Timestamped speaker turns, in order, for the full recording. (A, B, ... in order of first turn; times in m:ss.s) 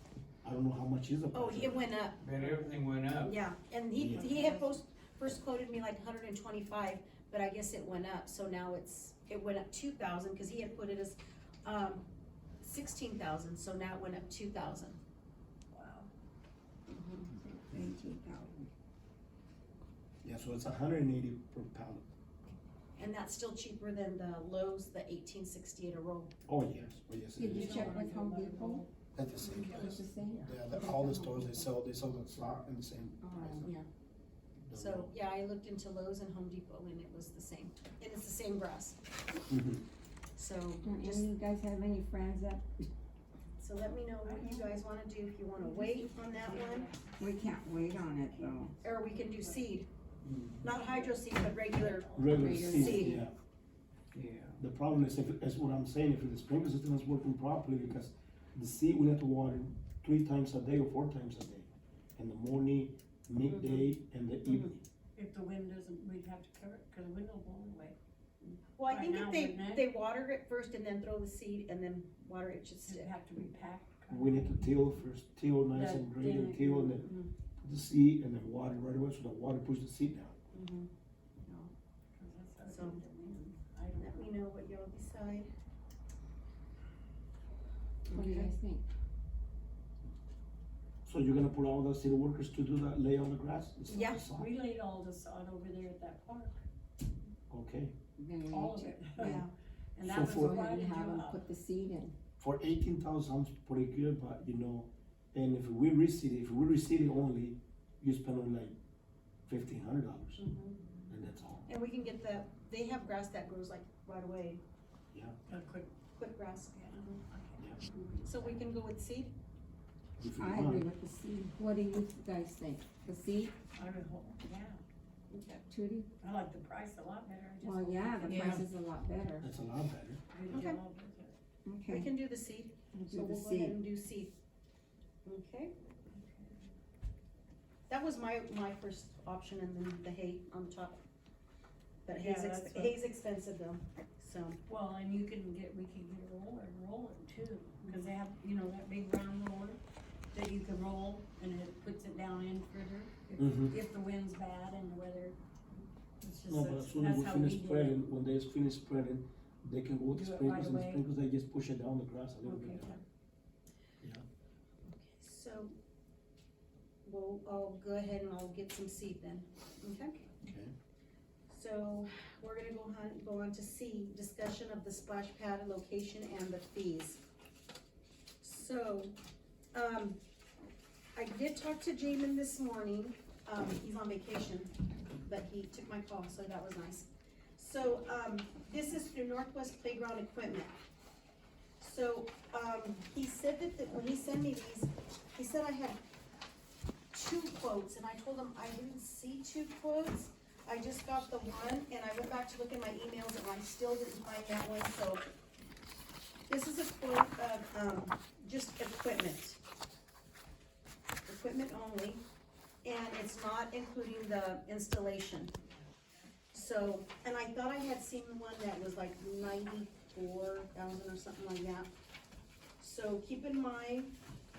0:00.4-0:01.8 A
0:01.3-0:12.1 B
0:02.2-0:03.4 C
0:04.0-0:04.3 A
0:04.2-0:04.8 D
0:12.6-0:15.0 B
0:15.7-0:16.1 D
0:16.9-0:17.3 B
0:17.3-0:18.7 E
0:20.2-0:22.1 A
0:23.0-0:26.3 B
0:26.5-0:28.0 A
0:27.4-0:28.8 E
0:27.4-0:30.0 D
0:29.2-0:33.7 A
0:29.5-0:31.7 E
0:33.2-0:33.7 E
0:33.6-0:33.9 B
0:34.6-0:35.1 A
0:34.7-0:39.0 B
0:39.5-0:39.8 A
0:40.4-0:41.3 B
0:40.8-0:42.9 E
0:43.6-0:46.9 B
0:44.2-0:44.7 D
0:45.6-0:49.8 D
0:47.2-0:48.7 E
0:48.8-0:49.9 B
0:50.2-0:50.7 C
0:50.6-0:53.2 B
0:50.7-0:51.2 D
0:51.8-0:52.6 D
0:52.1-0:53.4 A
0:52.3-0:53.2 E
0:54.1-0:54.6 C
0:54.6-1:04.8 A
1:03.5-1:03.9 B
1:04.4-1:04.8 B
1:05.2-1:08.0 D
1:08.4-1:13.2 B
1:08.9-1:09.9 D
1:12.8-1:15.0 D
1:14.1-1:17.1 A
1:15.7-1:17.2 D
1:17.0-1:17.3 B
1:17.6-1:20.4 A
1:20.5-1:20.9 B
1:21.4-1:21.7 B
1:22.1-1:24.3 D
1:22.7-1:23.0 B
1:24.0-1:25.5 B
1:28.1-1:28.5 B
1:28.1-1:28.8 E
1:31.0-1:34.5 A
1:33.9-1:34.2 B
1:34.2-1:36.6 D
1:37.5-1:37.9 A
1:38.2-1:39.4 E
1:38.5-1:39.4 D
1:39.2-1:39.5 B
1:40.0-1:41.4 D
1:40.0-1:40.6 A
1:40.2-1:42.2 E
1:42.4-1:48.8 A
1:49.5-1:50.4 A
1:50.4-1:50.8 B
1:51.1-1:51.7 A
1:51.7-1:54.6 B
1:55.5-1:55.9 D
1:56.2-1:57.1 B
1:56.7-1:58.7 D
1:58.2-1:59.3 B
2:00.2-2:00.9 A
2:00.4-2:03.5 E
2:03.8-2:04.8 D
2:05.3-2:05.7 B
2:05.7-2:06.1 E
2:06.2-2:08.7 D
2:07.6-2:09.5 E
2:08.3-2:08.6 C
2:09.4-2:10.6 A
2:10.3-2:11.4 D
2:10.5-2:10.8 B
2:11.6-2:12.1 E
2:11.9-2:14.3 B
2:12.9-2:13.8 E
2:15.2-2:15.7 B
2:16.1-2:16.7 D
2:17.9-2:21.0 B
2:22.1-2:24.6 B
2:22.1-2:23.0 D
2:24.7-2:29.8 D
2:30.3-2:35.4 D
2:33.4-2:33.8 A
2:36.2-2:38.0 D
2:36.5-2:43.0 A
2:40.1-2:41.0 D
2:42.4-2:43.0 D
2:44.9-2:45.8 B
2:47.0-2:50.2 B
2:50.4-2:50.7 A
2:51.5-2:57.2 B
2:58.4-2:59.2 B
2:59.7-3:00.2 B
3:01.2-3:10.8 B
3:11.8-3:16.0 B
3:17.1-3:25.3 B
3:26.5-3:29.6 B
3:31.3-3:32.2 B
3:32.8-3:35.5 B
3:36.5-3:41.9 B
3:42.8-3:44.2 B